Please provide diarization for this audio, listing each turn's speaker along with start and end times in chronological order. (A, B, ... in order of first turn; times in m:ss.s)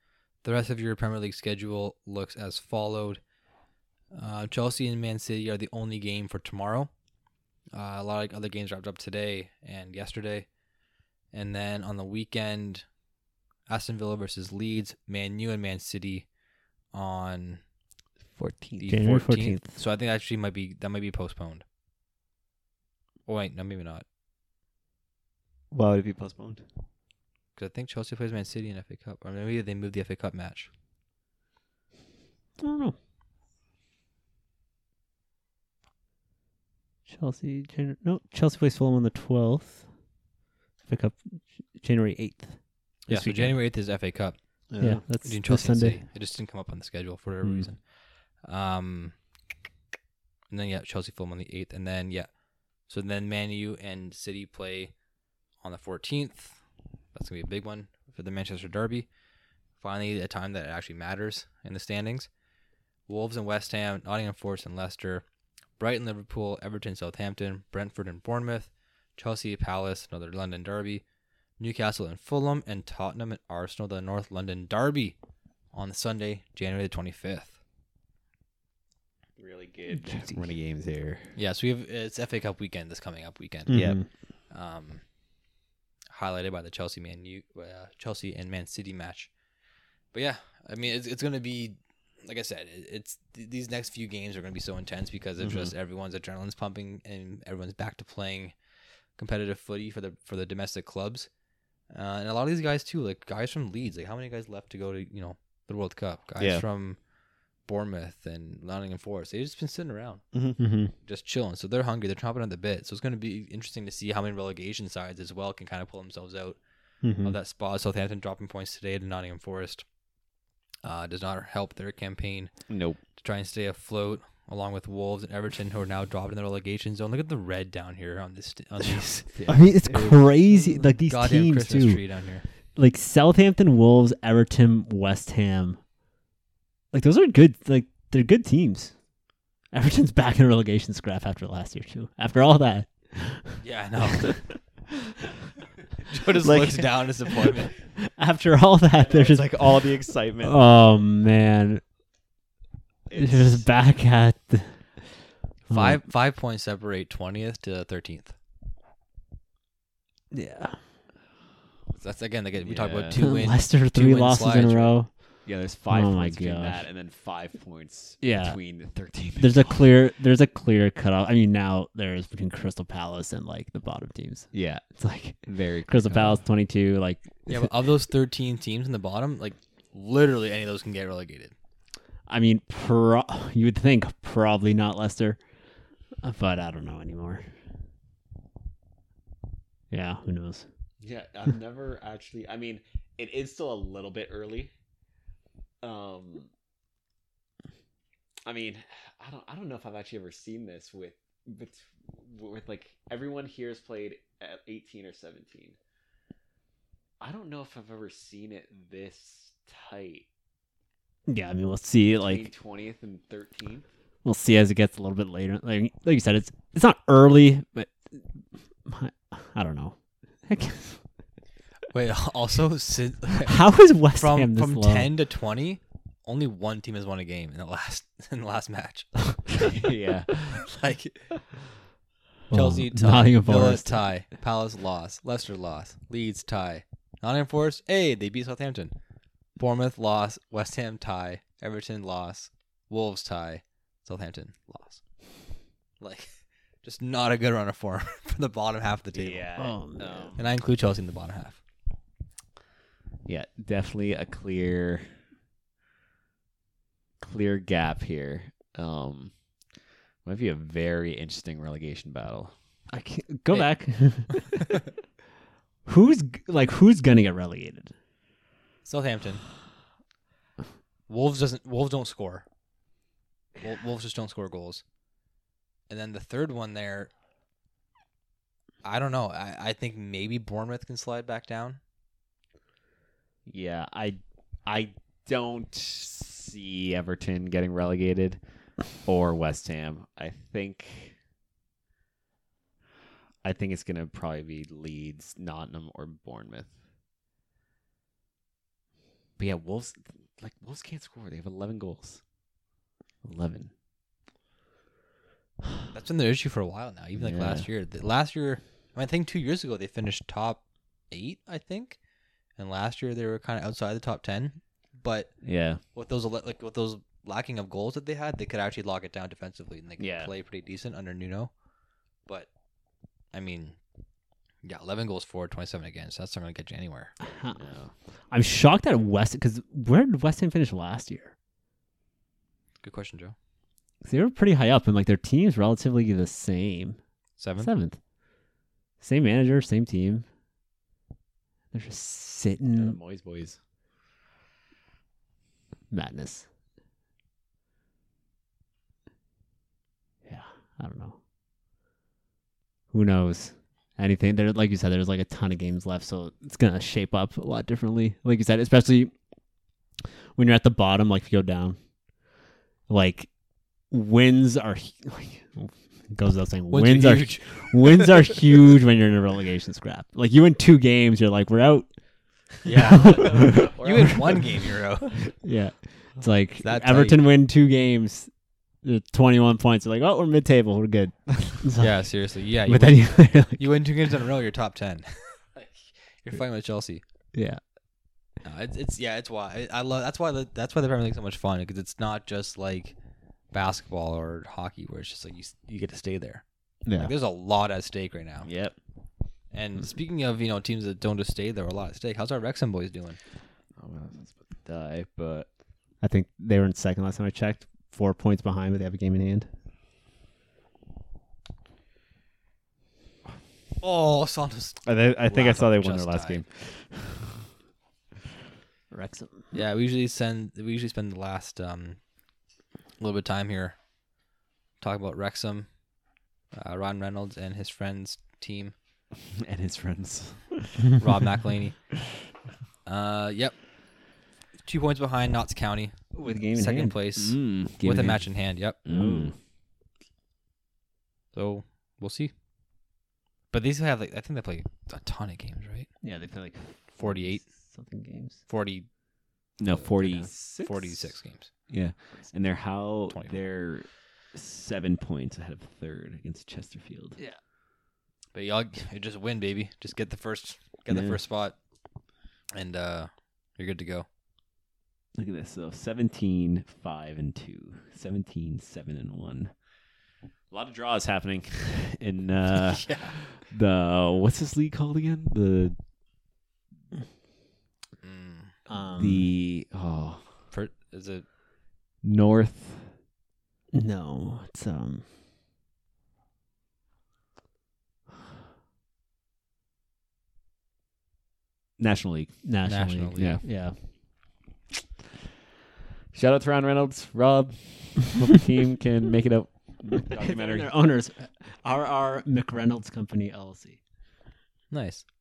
0:00.4-0:03.2 A
0:04.1-0:06.9 A
0:07.7-0:10.5 A
0:11.3-0:12.9 A
0:13.7-0:16.3 A
0:16.9-0:17.6 A
0:18.3-0:18.9 B
0:18.8-0:21.6 A
0:18.9-0:19.8 C
0:23.2-0:24.0 A
0:25.7-0:26.6 B
0:27.6-0:30.7 A
0:32.6-0:33.0 C
0:37.1-0:40.0 C
0:40.8-0:43.6 C
0:43.1-0:44.4 A
0:44.7-0:45.0 B
0:44.8-0:46.0 C
0:45.2-0:49.2 A
0:50.5-0:55.0 A
0:55.6-0:56.6 A
0:57.1-0:59.1 A
0:59.8-1:02.3 A
1:03.1-1:05.2 A
1:05.8-1:11.0 A
1:11.6-1:15.2 A
1:15.7-1:17.6 A
1:19.4-1:21.3 B
1:19.9-1:20.5 C
1:21.3-1:25.0 A
1:23.7-1:24.1 C
1:23.7-1:24.0 B
1:26.1-1:29.3 A
1:30.1-1:38.6 A
1:35.4-1:35.7 B
1:39.2-1:41.3 A
1:41.9-1:47.1 A
1:46.4-1:46.6 B
1:47.6-1:56.6 A
1:50.3-1:50.6 B
1:50.6-1:50.9 C
1:57.0-1:57.3 C
1:57.2-1:59.9 A
2:00.8-2:12.4 A
2:02.7-2:03.0 B
2:09.3-2:10.7 B
2:09.5-2:15.8 C
2:16.9-2:19.1 C
2:19.7-2:23.6 C
2:23.6-2:24.7 A
2:26.0-2:27.7 A
2:26.4-2:27.5 C
2:28.0-2:31.8 C
2:29.0-2:30.7 B
2:33.1-2:33.7 B
2:33.1-2:36.0 C
2:35.7-2:38.4 A
2:40.3-2:40.8 C
2:41.9-2:45.0 A
2:42.6-2:43.2 B
2:43.2-2:46.8 C
2:45.4-2:49.8 B
2:48.2-2:48.6 C
2:49.4-2:57.7 C
2:54.5-2:56.5 B
2:57.5-3:01.5 A
3:02.2-3:07.6 C
3:09.9-3:10.7 C
3:11.0-3:14.7 B
3:15.8-3:16.5 B
3:18.4-3:25.8 B
3:27.2-3:30.2 B
3:31.3-3:32.5 C
3:32.3-3:33.8 B
3:34.2-3:41.2 C
3:41.9-3:49.8 A
3:43.5-3:45.1 C
3:49.7-3:50.7 B
3:50.6-3:51.6 A
3:52.5-3:54.0 C
3:52.5-3:58.9 A
3:59.6-4:09.7 A
4:09.1-4:10.6 B
4:09.6-4:10.3 C
4:10.2-4:11.6 A
4:13.2-4:15.2 B
4:17.2-4:19.6 B
4:20.2-4:22.8 B
4:22.9-4:24.6 C
4:23.5-4:24.5 B
4:25.8-4:27.9 C
4:28.8-4:29.5 A
4:31.1-4:32.4 A
4:33.6-4:34.8 A
4:35.9-4:37.1 A
4:38.8-4:41.8 A
4:43.4-4:51.2 B
4:53.4-4:56.8 B
4:59.4-5:02.2 B
5:03.2-5:03.7 B
5:05.9-5:12.0 A
5:07.2-5:07.7 B
5:12.6-5:21.5 A
5:15.4-5:15.8 B
5:20.0-5:20.3 B
5:22.2-5:22.5 A
5:23.3-5:23.8 A
5:24.6-5:27.2 A
5:27.3-5:31.4 C
5:27.5-5:27.9 B
5:32.8-5:33.3 A
5:34.0-5:38.0 C
5:37.4-5:37.7 A
5:39.0-5:40.2 C
5:41.7-5:43.0 C
5:42.7-5:43.6 B
5:45.9-5:46.5 C
5:50.2-5:51.2 C
5:52.9-5:59.2 C
6:00.3-6:01.8 C
6:02.9-6:13.7 C
6:06.7-6:08.2 A
6:12.6-6:15.4 A
6:12.9-6:14.5 B
6:15.4-6:23.7 C
6:16.6-6:17.2 A
6:21.8-6:27.0 A
6:27.3-6:27.6 C
6:28.4-6:33.0 A
6:33.5-6:38.8 A
6:36.8-6:37.1 C
6:38.4-6:38.8 B
6:39.5-6:43.2 A
6:43.7-6:45.5 B
6:46.0-6:49.5 C
6:53.8-6:56.4 A
6:54.8-6:57.3 B
6:58.9-6:59.5 C
6:59.5-7:02.0 A
7:03.0-7:03.8 A
7:04.8-7:05.8 A
7:06.5-7:08.7 A
7:09.2-7:10.9 B
7:11.0-7:12.2 A
7:12.8-7:18.8 A
7:16.1-7:19.4 B
7:16.2-7:16.9 C
7:18.9-7:19.3 C
7:21.3-7:22.3 A
7:23.5-7:26.1 A
7:26.0-7:28.5 C
7:26.9-7:27.7 A
7:28.5-7:29.0 A
7:29.5-7:31.7 A
7:29.6-7:37.2 B
7:33.1-7:33.4 A
7:38.3-7:41.6 A
7:40.9-7:41.2 B
7:42.5-7:44.0 A
7:45.1-7:49.6 B
7:50.5-7:55.8 B
7:52.7-7:53.2 A
7:58.0-7:58.6 A
7:58.7-7:59.3 C
7:59.0-8:00.4 B
8:00.5-8:01.3 A
8:02.0-8:03.0 B
8:03.7-8:05.0 C
8:11.8-8:12.4 B
8:12.4-8:13.8 C
8:12.6-8:13.4 A
8:13.1-8:14.0 B
8:16.1-8:20.9 B
8:20.1-8:23.8 C
8:24.7-8:25.1 A